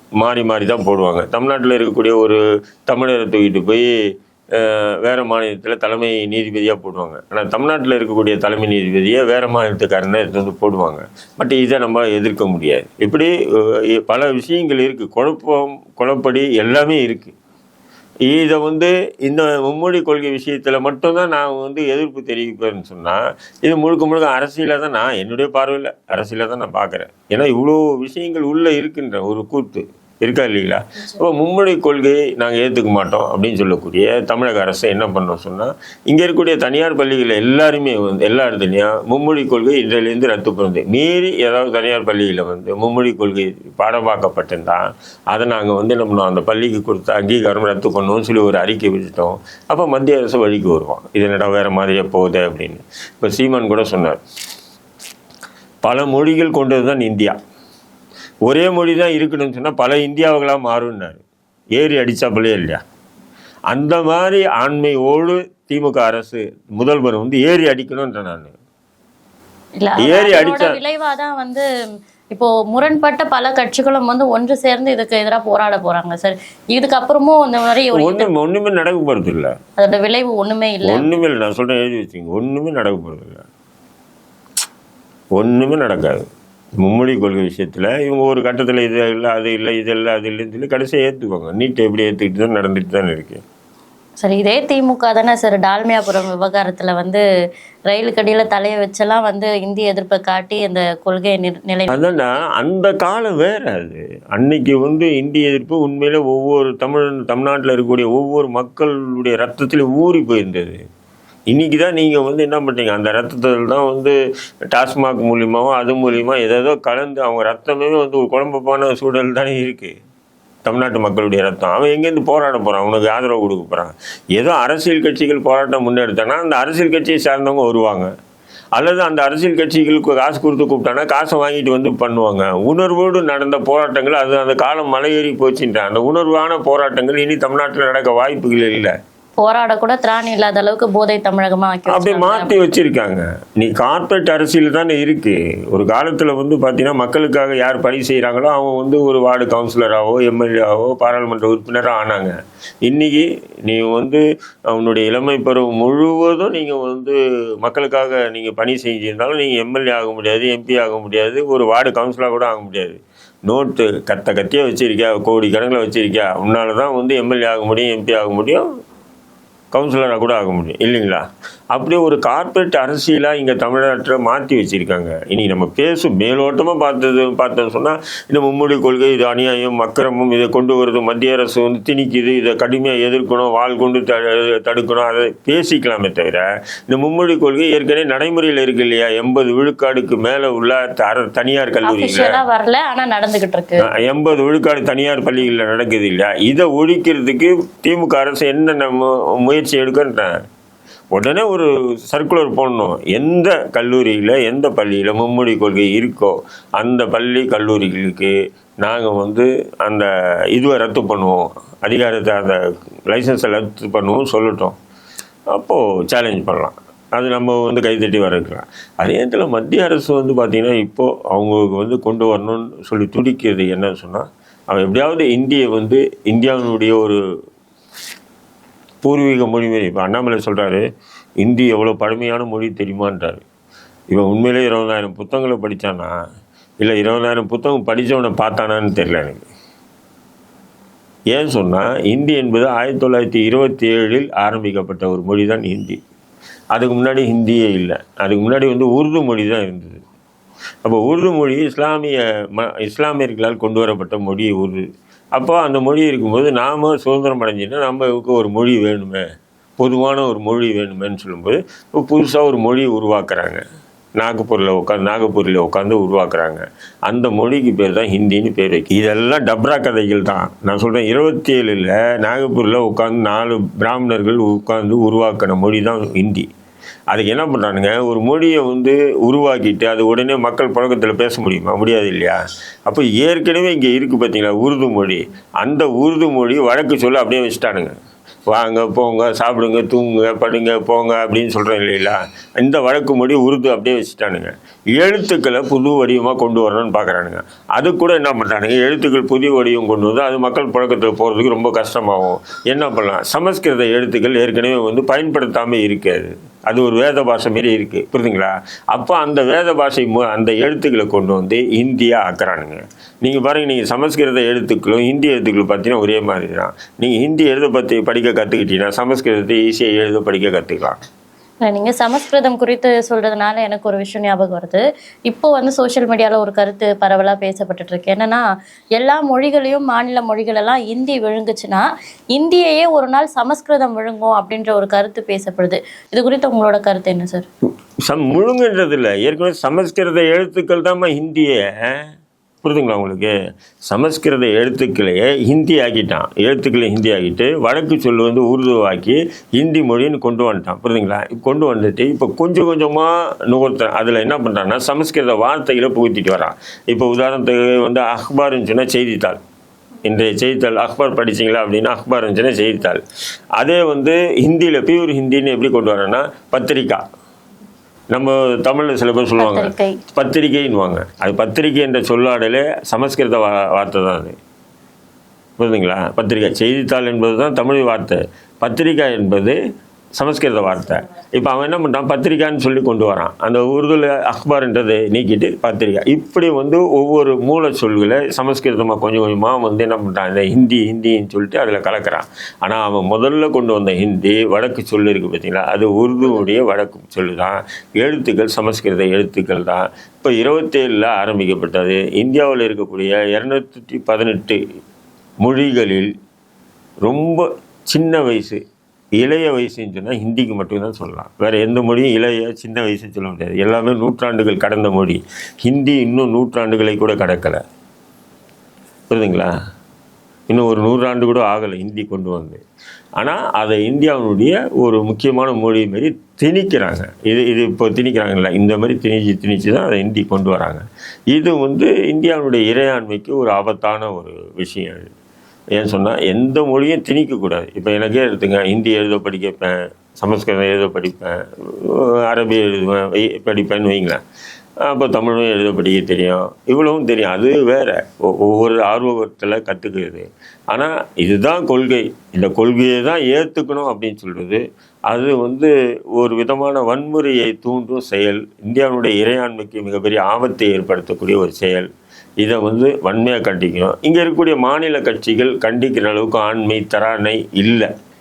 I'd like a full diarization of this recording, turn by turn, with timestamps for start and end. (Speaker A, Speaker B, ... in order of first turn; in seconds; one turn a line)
Speaker A: 0.2-3.9
Speaker A: 4.5-13.3
Speaker A: 13.8-17.3
Speaker A: 18.3-54.2
Speaker A: 55.8-57.4
Speaker A: 58.5-61.2
Speaker A: 61.8-62.8
Speaker A: 63.7-68.5
Speaker B: 69.8-71.6
Speaker A: 70.0-70.8
Speaker B: 72.3-78.3
Speaker A: 77.9-79.5
Speaker B: 79.8-81.1
Speaker A: 80.8-83.4
Speaker A: 85.3-86.2
Speaker A: 86.8-93.4
Speaker B: 94.2-97.2
Speaker B: 97.9-102.1
Speaker A: 101.9-110.8
Speaker A: 111.5-114.1
Speaker A: 114.7-119.9
Speaker A: 120.7-128.1
Speaker A: 128.8-138.9
Speaker B: 139.4-142.6
Speaker A: 141.9-168.6
Speaker A: 169.7-192.4
Speaker B: 191.8-193.8
Speaker A: 193.8-200.3
Speaker A: 201.1-214.7
Speaker A: 215.5-227.2
Speaker A: 229.0-230.8
Speaker A: 231.4-233.4
Speaker A: 234.1-236.1
Speaker A: 236.8-239.4
Speaker A: 241.3-246.0
Speaker A: 246.7-250.0
Speaker A: 250.8-254.8
Speaker A: 255.3-259.2
Speaker A: 259.8-263.6
Speaker A: 264.2-276.4
Speaker A: 277.1-287.9
Speaker A: 288.5-321.0
Speaker B: 321.6-328.4
Speaker B: 328.9-337.5
Speaker A: 338.1-342.0
Speaker A: 342.6-343.3
Speaker A: 343.9-359.4
Speaker A: 360.0-363.0
Speaker A: 363.6-367.0
Speaker A: 368.1-374.3
Speaker B: 369.4-370.0
Speaker A: 375.6-379.6
Speaker A: 380.2-404.6
Speaker A: 405.4-406.1
Speaker A: 407.0-408.6
Speaker A: 409.2-417.6
Speaker A: 419.1-419.5
Speaker A: 420.5-422.6
Speaker A: 423.2-435.1
Speaker A: 435.8-444.2
Speaker A: 444.8-461.9
Speaker A: 462.4-467.9